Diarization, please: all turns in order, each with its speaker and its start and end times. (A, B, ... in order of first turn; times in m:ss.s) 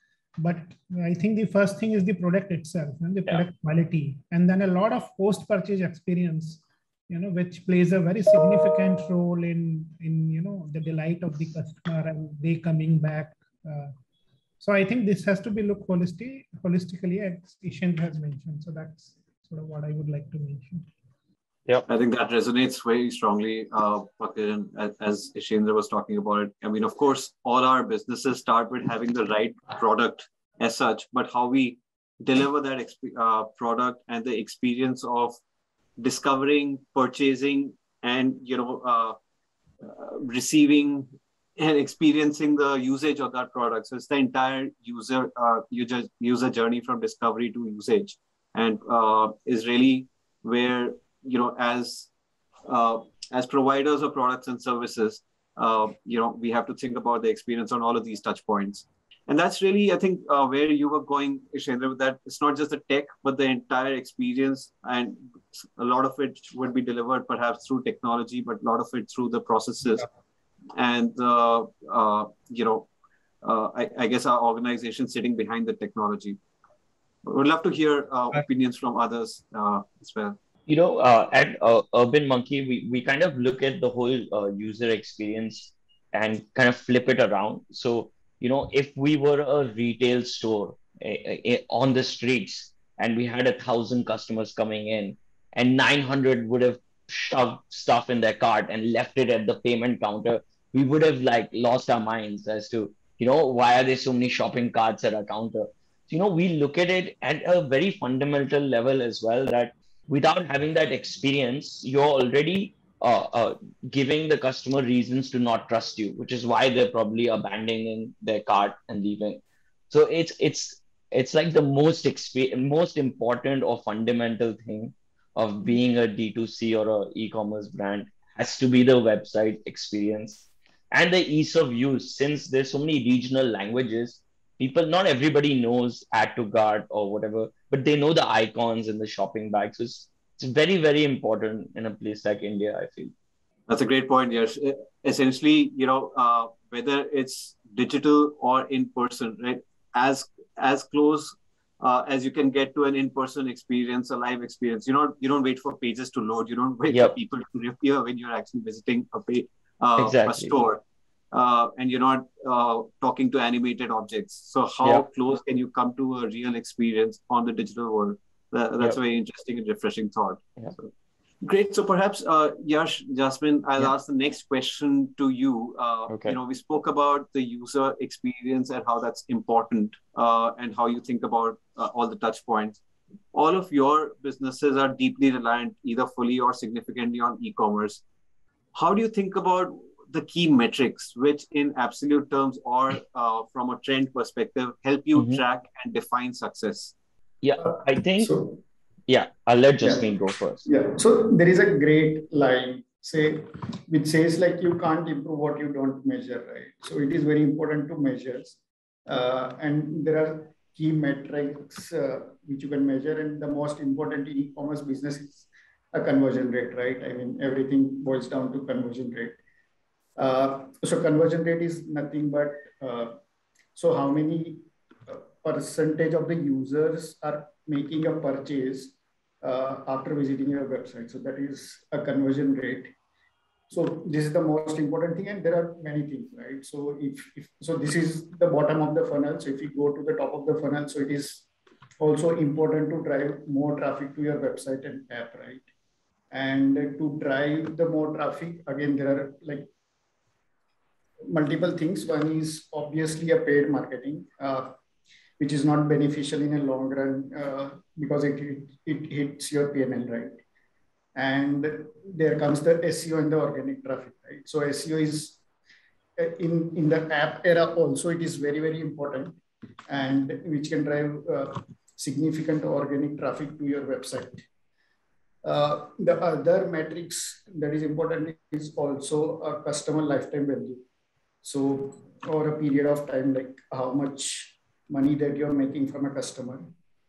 0:00.4-0:13.9 A
0:14.6-0:20.9 A
0:21.9-0:35.4 B
0:36.0-0:39.2 B
0:39.8-0:52.1 B
0:52.7-1:10.1 B
1:10.8-1:12.9 B
1:13.4-1:16.4 B
1:17.3-1:20.4 B
1:20.7-2:23.1 C
2:23.7-2:50.9 B
2:40.0-2:40.6 C
2:51.4-3:02.8 B
2:56.1-2:56.4 C
3:03.3-3:08.0 B
3:08.8-3:16.9 B
3:15.2-3:15.4 C
3:17.4-3:18.4 C
3:17.6-3:18.6 D
3:19.1-3:20.7 C
3:19.8-3:39.4 D
3:40.2-3:43.2 D
3:43.8-3:52.9 D
3:53.7-4:01.5 D
4:02.0-4:05.6 D
4:06.3-4:09.7 D
4:11.3-4:14.8 D
4:15.4-4:20.4 D
4:21.2-4:25.4 D
4:26.2-4:34.4 D
4:35.4-4:40.8 D
4:41.4-4:46.7 D